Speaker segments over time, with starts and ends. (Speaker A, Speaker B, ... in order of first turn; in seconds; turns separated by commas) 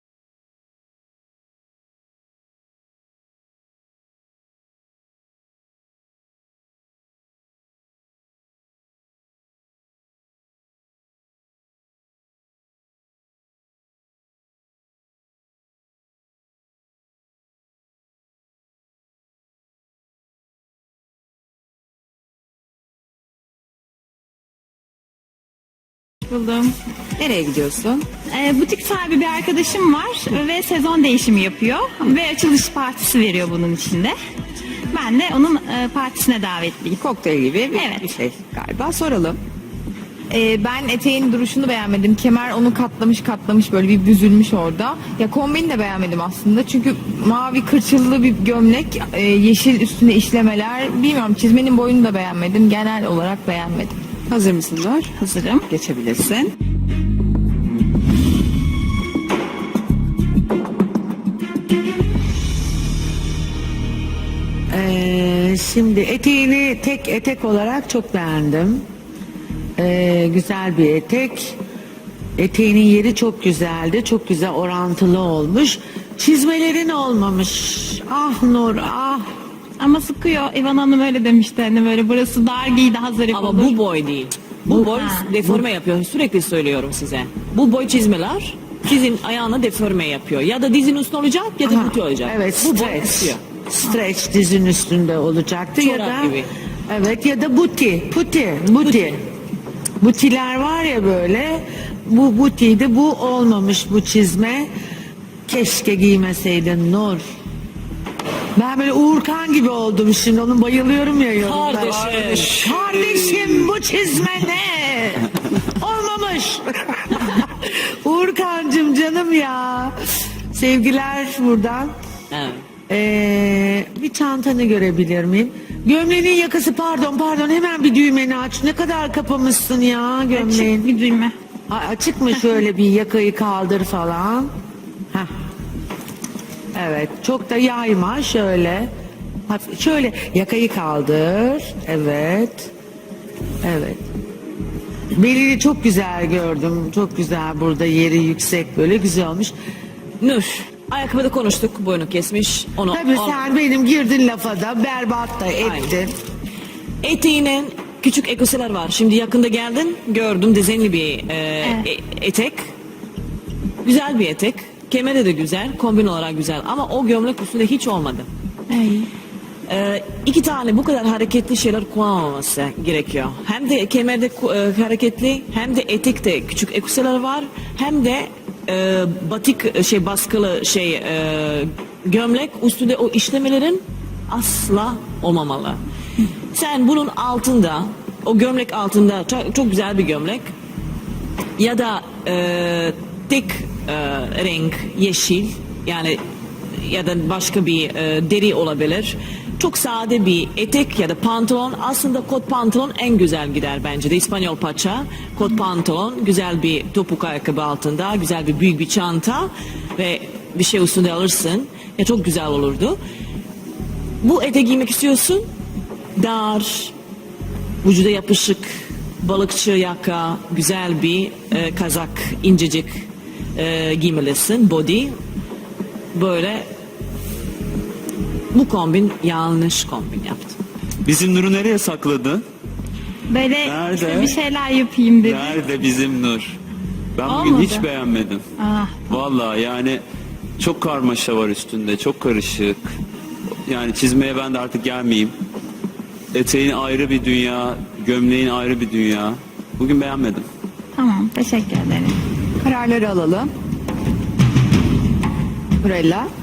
Speaker A: 26.3-26.7, Speaker B: 27.2-28.1, Speaker A: 28.3-34.1, Speaker A: 34.9-37.0, Speaker B: 37.0-39.4, Speaker A: 37.7-38.1, Speaker C: 40.3-54.0, Speaker B: 54.3-56.5, Speaker D: 64.7-68.8, Speaker D: 69.8-71.6, Speaker D: 72.4-79.3, Speaker A: 79.8-83.8, Speaker E: 83.3-93.4, Speaker A: 85.0-85.3, Speaker D: 91.6-99.2, Speaker E: 95.8-96.5, Speaker E: 98.8-99.2, Speaker D: 100.0-104.7, Speaker D: 105.5-107.2, Speaker D: 108.5-119.9, Speaker E: 111.4-112.6, Speaker F: 111.7-113.7, Speaker D: 120.5-122.0, Speaker E: 122.3-122.6, Speaker D: 122.9-130.9, Speaker A: 130.3-131.3, Speaker D: 131.7-134.5, Speaker D: 136.7-138.9, Speaker D: 139.5-142.7, Speaker D: 143.6-144.1, Speaker D: 145.1-149.5, Speaker E: 150.2-153.5, Speaker D: 152.9-156.1, Speaker E: 155.6-155.9, Speaker E: 157.0-162.7, Speaker E: 163.8-168.3, Speaker A: 168.7-169.1, Speaker E: 169.7-185.8, Speaker E: 186.5-190.5, Speaker E: 191.6-196.2, Speaker E: 196.8-213.0, Speaker E: 214.2-215.5, Speaker E: 216.2-216.9, Speaker E: 217.8-225.1, Speaker E: 226.1-226.7, Speaker E: 228.5-230.6, Speaker F: 231.1-232.4, Speaker A: 233.3-235.6, Speaker F: 233.6-234.4, Speaker F: 235.2-236.5, Speaker F: 237.2-238.4, Speaker A: 237.2-237.8, Speaker A: 238.6-239.0, Speaker F: 239.1-240.0, Speaker F: 240.6-242.9, Speaker F: 243.7-245.3, Speaker F: 246.3-250.4, Speaker A: 250.9-252.2, Speaker B: 252.6-253.5, Speaker B: 255.8-256.3